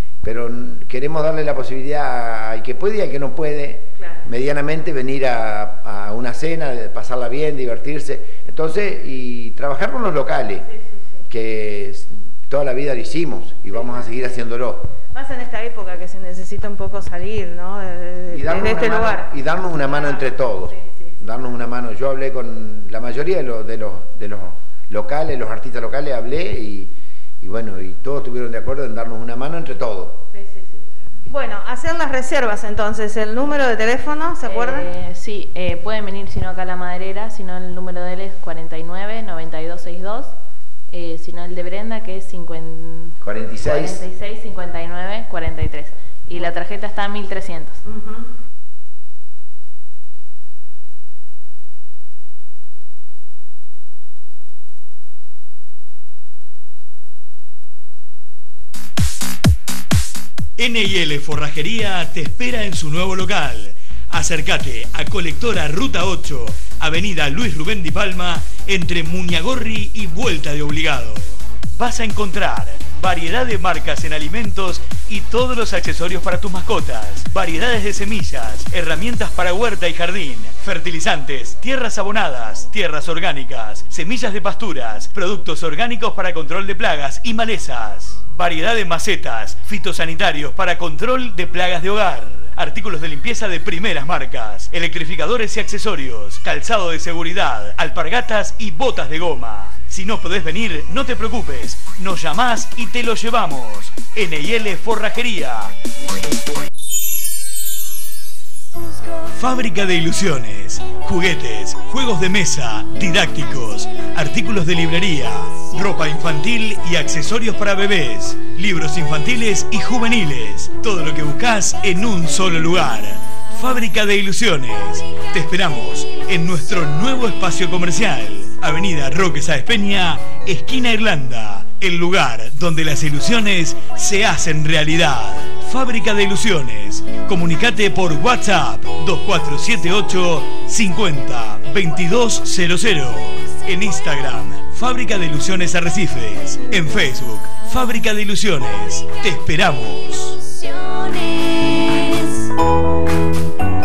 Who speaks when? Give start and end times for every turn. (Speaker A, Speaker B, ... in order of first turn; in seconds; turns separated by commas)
Speaker A: 0.2-10.7, Speaker B: 10.7-11.0, Speaker A: 11.3-14.9, Speaker B: 13.7-14.1, Speaker B: 15.1-21.2, Speaker A: 18.3-30.2, Speaker B: 30.3-30.7, Speaker B: 31.3-34.9, Speaker C: 34.4-40.3, Speaker C: 40.9-47.8, Speaker A: 43.2-44.0, Speaker B: 47.9-48.2, Speaker D: 60.6-105.7, Speaker D: 109.3-150.5